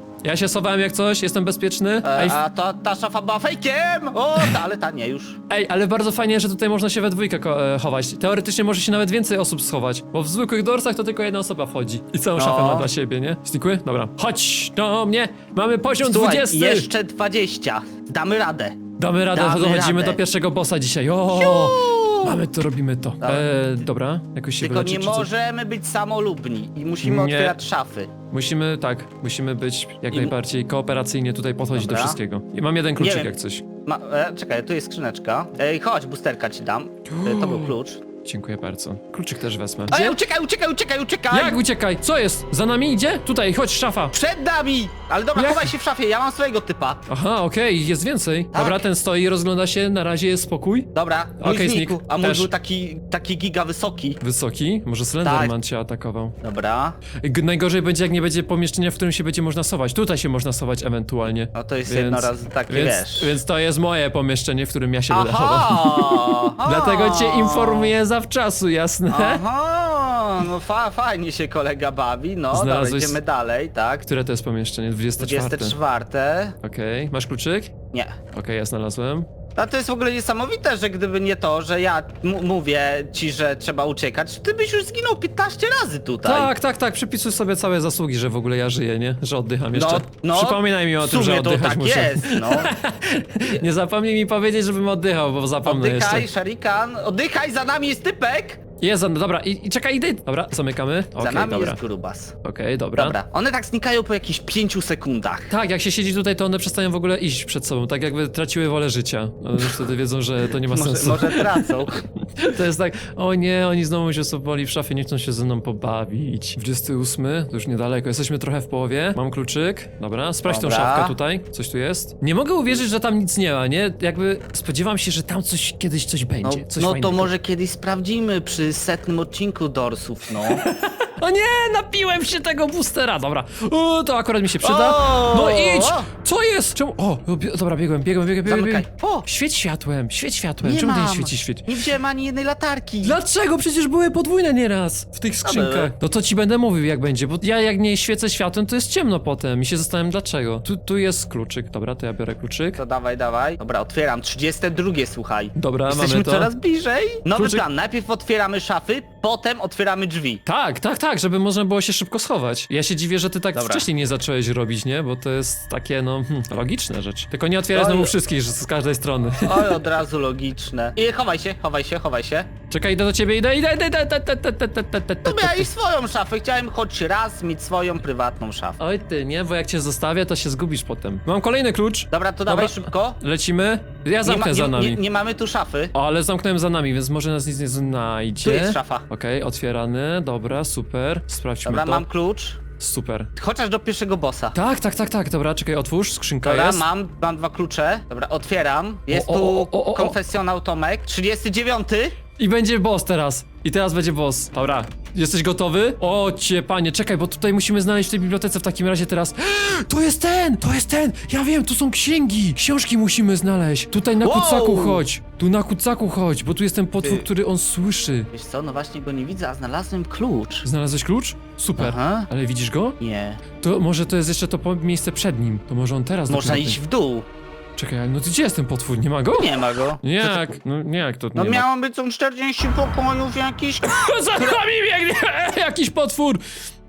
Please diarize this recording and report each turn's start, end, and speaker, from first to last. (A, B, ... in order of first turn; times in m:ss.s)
0:00.2-0:02.4 A
0:02.0-0:05.4 B
0:05.5-0:16.9 A
0:12.4-0:12.9 B
0:16.0-0:18.8 B
0:19.0-0:25.3 A
0:19.3-0:20.2 B
0:21.3-0:22.4 B
0:23.2-0:23.5 B
0:24.6-0:28.1 B
0:27.0-0:27.6 A
0:28.3-0:33.6 A
0:31.7-0:32.2 B
0:33.0-0:38.0 B
0:37.1-0:37.7 A
0:38.2-0:40.1 A
0:39.9-0:41.6 B
0:41.3-0:44.1 A
0:44.1-0:47.0 B
0:45.3-0:45.7 A
0:47.1-0:50.9 A
0:48.5-0:48.8 B
0:50.9-0:54.2 B
0:51.4-0:52.5 A
0:54.2-0:56.3 A
0:55.2-0:55.5 B
0:56.4-0:57.0 B
0:57.2-1:09.4 A
1:01.5-1:03.4 B
1:05.1-1:07.9 B
1:09.1-1:14.0 B
1:12.5-1:13.2 A
1:14.0-1:15.8 A
1:15.2-1:16.6 B
1:16.6-1:17.7 A
1:18.3-1:19.3 A
1:19.6-1:26.5 B
1:26.2-1:36.3 A
1:29.7-1:32.7 B
1:35.6-1:38.6 B
1:38.8-1:41.8 A
1:41.2-1:42.3 B
1:42.4-1:43.2 A
1:43.0-1:45.5 B
1:45.5-2:07.3 A
1:50.7-1:51.9 B
2:00.4-2:01.2 B
2:06.4-2:10.6 B
2:10.5-2:21.7 A
2:14.6-2:16.1 B
2:18.4-2:19.2 B
2:20.6-2:23.2 B
2:23.0-2:32.8 A
2:25.4-2:25.9 B
2:32.8-2:40.4 B
2:35.6-2:36.5 A
2:37.3-2:37.6 A
2:40.4-2:49.8 A
2:43.5-2:43.9 B
2:47.7-2:48.1 B
2:49.4-2:52.5 B
2:52.7-2:55.7 A
2:55.2-2:58.8 B
2:58.8-3:05.0 A
3:02.1-3:03.2 B
3:04.2-3:05.9 B
3:05.9-3:12.0 A
3:08.4-3:09.0 B
3:11.6-3:12.6 B
3:12.8-3:13.3 A
3:13.4-3:14.5 B
3:14.5-3:16.8 A
3:16.4-3:22.2 B
3:19.1-3:20.2 A
3:22.4-3:38.3 A
3:34.2-3:35.0 B
3:38.3-3:40.6 B
3:40.6-3:43.0 A
3:41.8-3:42.3 B
3:43.0-3:43.4 B
3:43.6-3:46.8 A
3:46.3-3:47.2 B
3:47.8-3:51.6 A
3:49.4-3:50.6 B
3:51.3-3:54.6 B
3:53.8-3:56.4 A